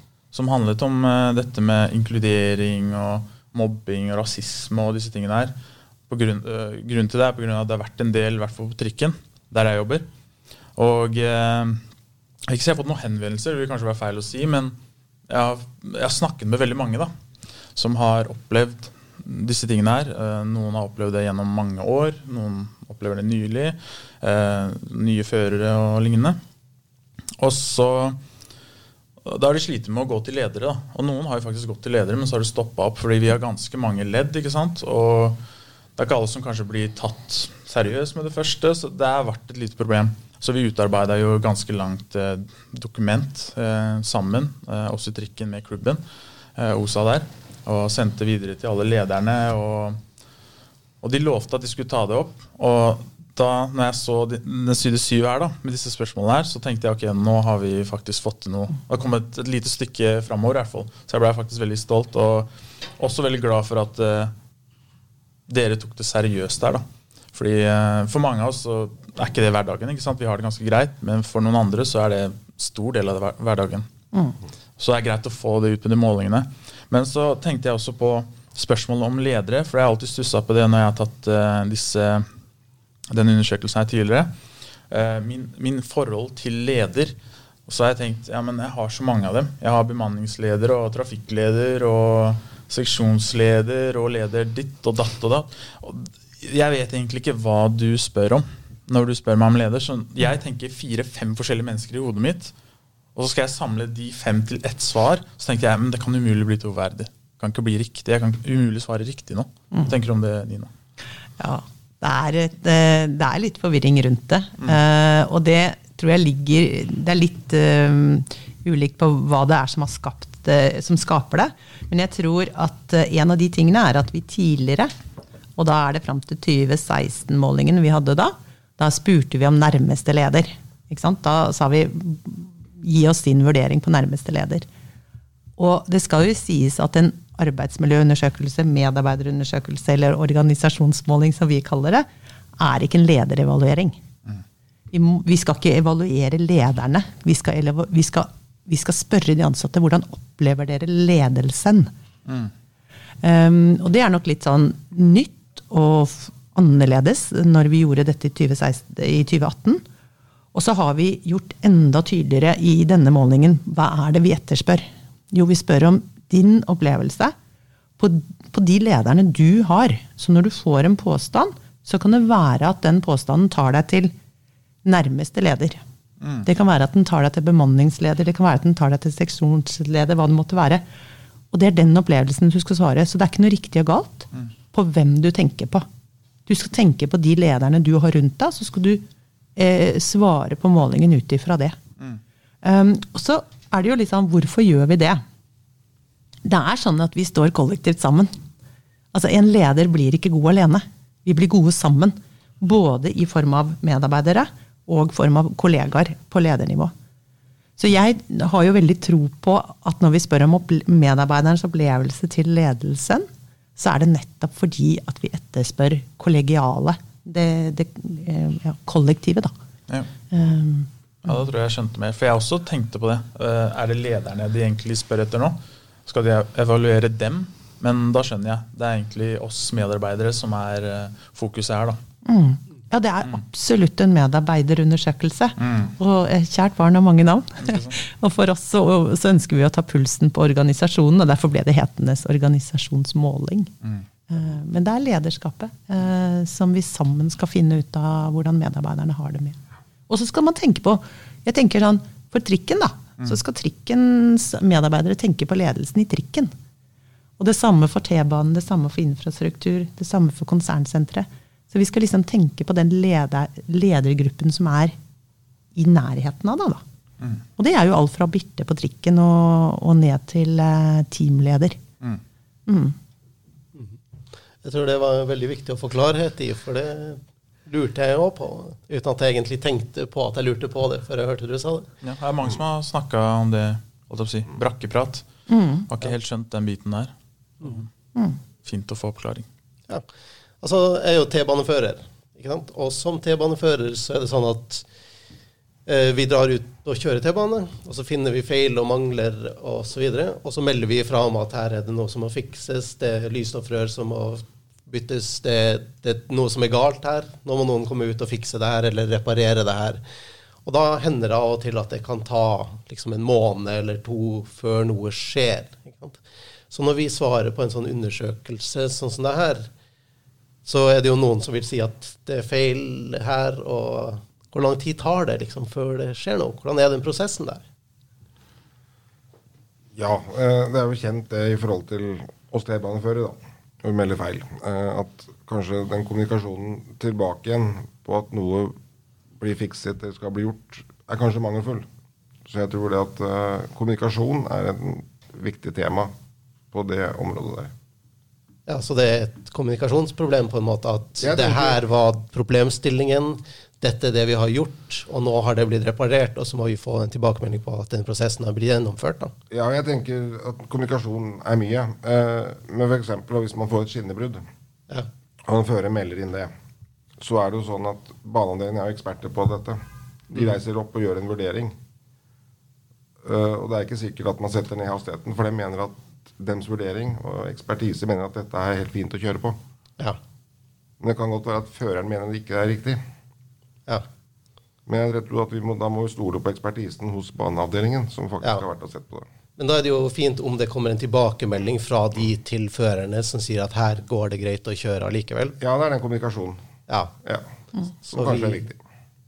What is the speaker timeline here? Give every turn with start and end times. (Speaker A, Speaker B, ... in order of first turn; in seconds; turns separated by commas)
Speaker A: 0.3-5.5, Speaker A: 6.1-10.1, Speaker A: 10.8-11.8, Speaker A: 12.5-14.8, Speaker A: 15.3-17.1, Speaker A: 17.8-26.4, Speaker A: 27.4-28.2, Speaker A: 29.2-35.4, Speaker A: 36.0-46.0, Speaker A: 46.5-50.0, Speaker A: 51.0-64.3, Speaker A: 65.5-73.9, Speaker A: 74.8-82.3, Speaker A: 83.1-84.3, Speaker A: 84.9-87.1, Speaker A: 87.7-102.5, Speaker A: 103.1-110.7, Speaker B: 111.4-124.9, Speaker B: 125.6-134.7, Speaker B: 135.6-142.1, Speaker B: 142.6-144.0, Speaker B: 144.9-151.9, Speaker A: 152.3-152.5, Speaker B: 153.2-159.8, Speaker B: 160.5-167.3, Speaker B: 168.0-174.1, Speaker B: 174.8-175.8, Speaker A: 176.2-176.5, Speaker B: 176.4-180.8, Speaker B: 181.5-185.8, Speaker B: 186.5-189.0, Speaker B: 189.6-191.8, Speaker B: 192.6-195.2, Speaker B: 196.4-198.3, Speaker B: 199.1-206.9, Speaker B: 207.8-219.5, Speaker B: 220.3-220.9, Speaker A: 221.2-232.0, Speaker B: 232.2-243.7, Speaker A: 235.6-235.9, Speaker A: 237.6-238.0, Speaker B: 244.3-249.6, Speaker B: 250.1-256.5, Speaker B: 257.4-264.9, Speaker B: 265.7-266.8, Speaker B: 267.6-271.8, Speaker B: 272.7-272.9, Speaker C: 274.6-281.9, Speaker A: 282.0-285.2, Speaker B: 285.5-285.9, Speaker A: 285.9-287.9, Speaker A: 288.6-289.4, Speaker C: 290.6-294.9, Speaker C: 295.9-310.0, Speaker C: 310.6-319.7, Speaker C: 320.6-327.6, Speaker D: 329.9-338.8, Speaker D: 339.4-341.9, Speaker D: 342.5-346.1, Speaker D: 346.7-347.7, Speaker C: 348.7-359.3, Speaker D: 351.2-351.8, Speaker D: 359.5-364.4, Speaker D: 365.4-366.5, Speaker D: 367.2-371.8, Speaker D: 373.2-379.6, Speaker D: 381.0-383.0, Speaker D: 384.9-389.2, Speaker C: 389.6-395.6, Speaker D: 395.6-396.6, Speaker D: 398.0-398.8, Speaker C: 398.1-398.6